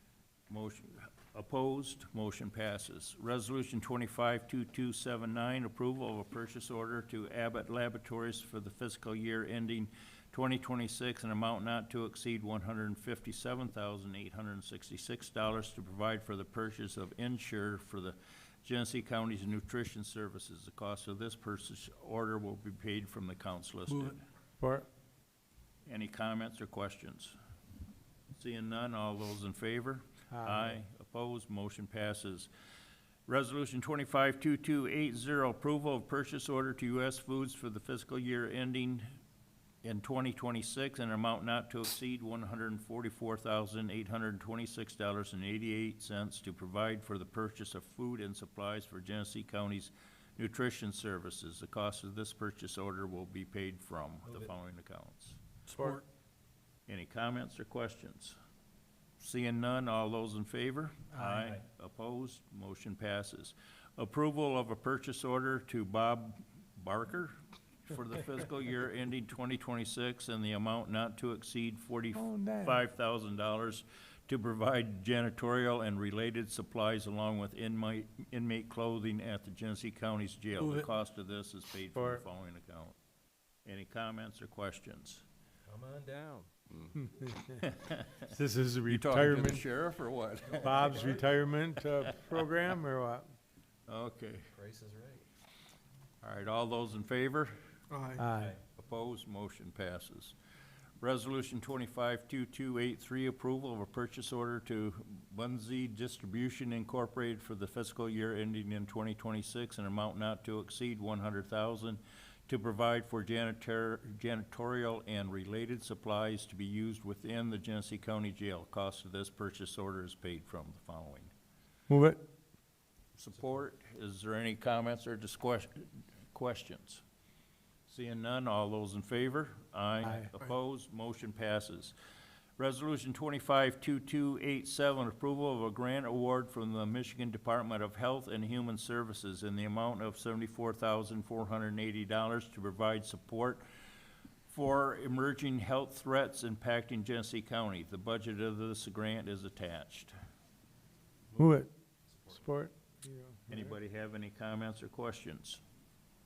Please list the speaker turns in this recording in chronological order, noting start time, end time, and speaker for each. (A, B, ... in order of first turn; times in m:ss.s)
0:00.5-0:24.2 A
0:24.6-0:24.9 B
0:25.8-0:27.4 A
0:28.3-0:32.5 A
0:30.3-0:30.8 B
0:33.3-0:39.2 A
0:39.8-0:55.4 A
0:56.9-0:58.4 A
0:59.2-1:23.0 A
1:01.1-1:01.5 B
1:12.1-1:12.8 B
1:21.9-1:22.2 B
1:23.6-1:25.2 A
1:25.6-1:26.5 C
1:27.1-1:27.6 B
1:27.5-1:28.2 A
1:28.2-1:29.6 B
1:28.9-1:31.2 A
1:30.6-1:33.2 B
1:30.6-1:31.2 C
1:33.9-1:34.5 A
1:34.5-1:35.2 C
1:36.2-1:37.5 A
1:38.2-1:38.6 B
1:38.3-1:38.6 C
1:38.8-1:40.4 A
1:41.0-2:01.3 A
2:01.9-2:02.2 B
2:03.2-2:07.0 A
2:07.9-2:11.9 A
2:10.0-2:10.3 B
2:12.6-2:23.6 A
2:24.5-2:30.1 A
2:31.4-2:31.7 B
2:32.1-2:32.4 C
2:32.3-2:33.7 B
2:33.5-2:35.6 A